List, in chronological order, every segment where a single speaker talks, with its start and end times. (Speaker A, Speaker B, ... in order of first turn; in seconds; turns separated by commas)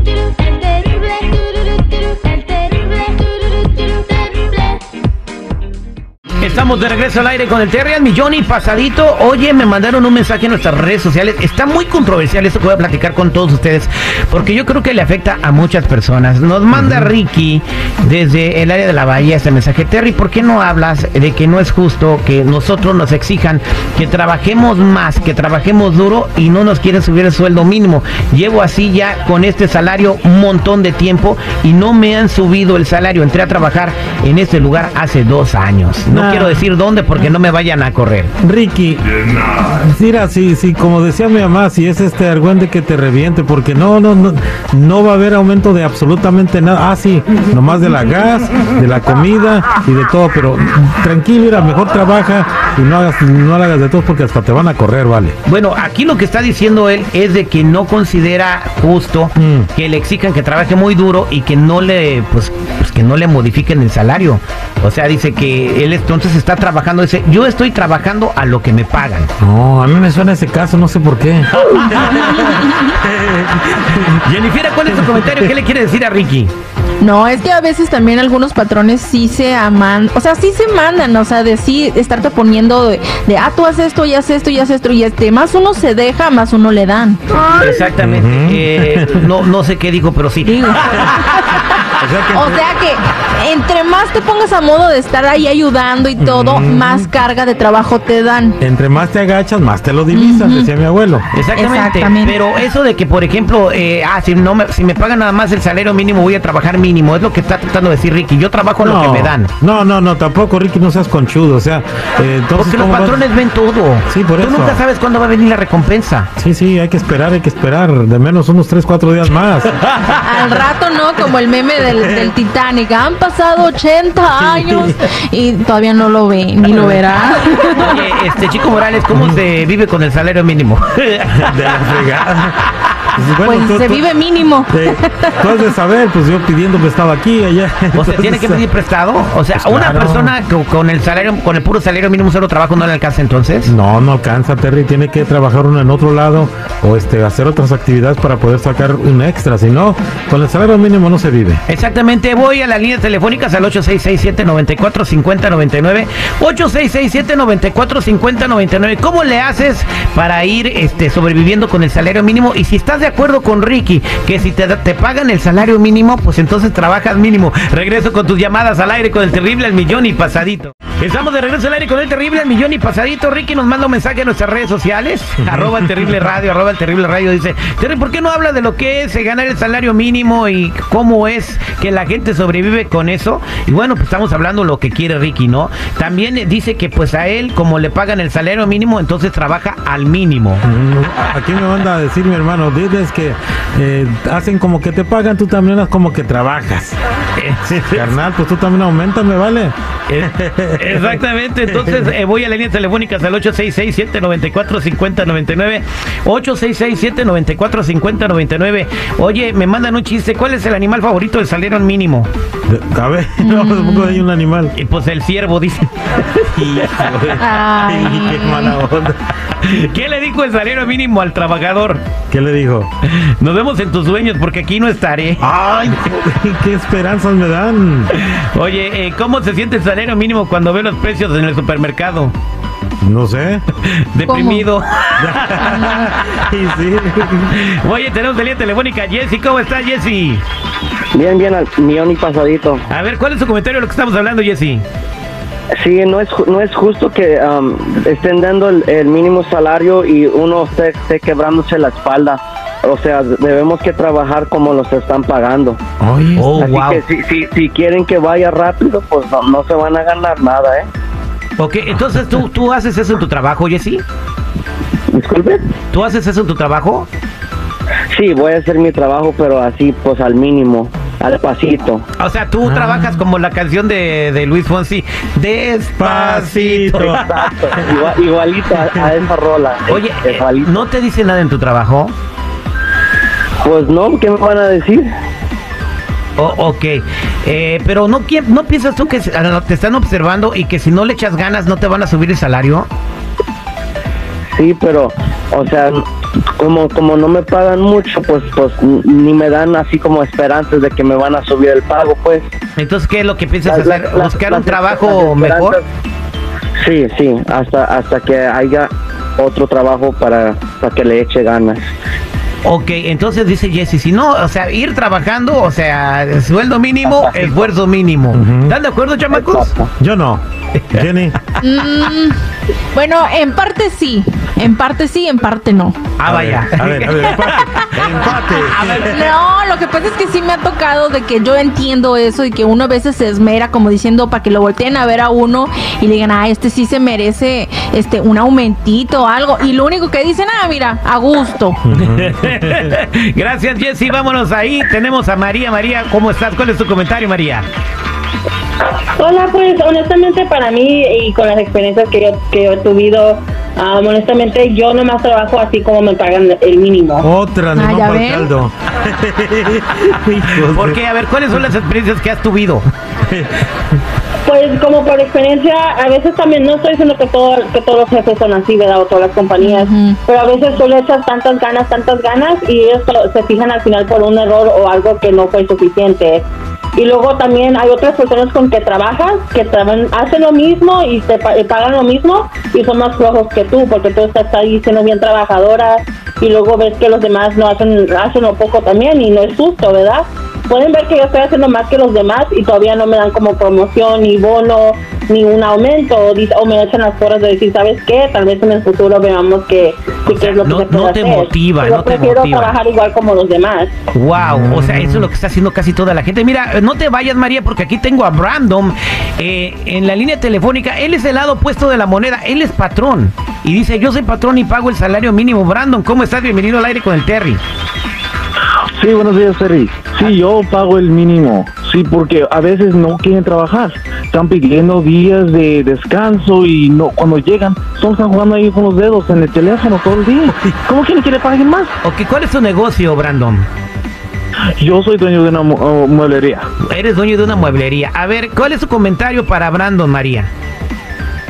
Speaker A: 0.4-4.8, Speaker B: 6.4-38.3, Speaker C: 16.7-17.1, Speaker C: 36.1-36.7, Speaker C: 38.4-55.3, Speaker B: 55.5-69.3, Speaker C: 59.4-59.7, Speaker C: 69.4-74.1, Speaker B: 71.7-72.1, Speaker B: 74.0-76.5, Speaker C: 75.0-75.3, Speaker A: 77.0-87.2, Speaker B: 87.5-91.2, Speaker C: 88.0-89.3, Speaker A: 90.4-91.7, Speaker C: 92.0-92.6, Speaker A: 92.3-98.5, Speaker C: 96.2-97.1, Speaker C: 98.6-101.2, Speaker A: 100.1-100.7, Speaker B: 101.3-109.5, Speaker A: 101.5-102.4, Speaker C: 108.8-113.2, Speaker B: 112.5-116.3, Speaker C: 114.1-114.8, Speaker C: 116.4-119.7, Speaker A: 120.2-128.0, Speaker C: 124.3-124.9, Speaker C: 126.7-127.0, Speaker B: 127.8-132.1, Speaker C: 129.1-129.4, Speaker C: 131.3-132.6, Speaker C: 133.1-134.0, Speaker A: 133.4-135.5, Speaker C: 134.7-138.6, Speaker B: 137.9-143.7, Speaker C: 139.5-140.3, Speaker C: 143.7-151.6, Speaker B: 151.7-190.6, Speaker C: 175.4-176.1, Speaker C: 190.6-196.9, Speaker B: 197.3-198.1, Speaker C: 197.7-202.1, Speaker B: 200.1-212.3, Speaker C: 212.7-214.7, Speaker A: 213.4-214.2, Speaker B: 214.7-217.3, Speaker C: 216.6-219.2, Speaker A: 217.4-218.8, Speaker B: 219.6-222.0, Speaker C: 222.3-222.9, Speaker B: 223.2-225.4, Speaker C: 225.4-228.1, Speaker B: 228.1-232.3, Speaker C: 233.0-233.6, Speaker B: 233.8-236.4, Speaker A: 234.2-234.7, Speaker C: 235.2-237.6, Speaker B: 237.5-240.4, Speaker D: 241.1-242.8, Speaker B: 242.9-244.8, Speaker D: 245.7-255.8, Speaker C: 256.0-256.5, Speaker B: 256.4-257.0, Speaker D: 256.6-260.9, Speaker B: 261.6-264.0, Speaker D: 265.1-265.7, Speaker B: 265.9-267.1, Speaker D: 268.1-272.0, Speaker B: 272.2-277.5, Speaker C: 272.6-273.2, Speaker C: 276.0-277.9, Speaker D: 276.9-280.9, Speaker B: 279.9-282.1, Speaker D: 283.6-285.1, Speaker B: 286.4-292.9, Speaker D: 294.5-296.0, Speaker D: 296.6-302.4, Speaker B: 302.8-305.8, Speaker D: 303.6-305.8, Speaker D: 306.8-311.8, Speaker B: 312.6-319.7, Speaker D: 317.1-317.7, Speaker C: 318.3-318.8, Speaker D: 319.3-319.9, Speaker C: 320.0-321.4, Speaker A: 321.6-322.4, Speaker A: 322.9-326.0, Speaker B: 326.2-327.6, Speaker C: 326.2-329.3, Speaker A: 327.8-341.8, Speaker C: 341.8-342.9, Speaker B: 342.0-347.6, Speaker E: 349.2-357.3, Speaker C: 357.2-361.0, Speaker A: 357.8-358.5, Speaker B: 360.6-362.9, Speaker E: 364.4-376.4, Speaker A: 369.6-370.2, Speaker E: 376.9-403.9, Speaker B: 400.2-402.7, Speaker B: 404.1-417.6, Speaker C: 404.4-405.3, Speaker F: 418.9-431.9, Speaker B: 432.0-433.7, Speaker F: 434.8-436.7, Speaker B: 436.9-440.5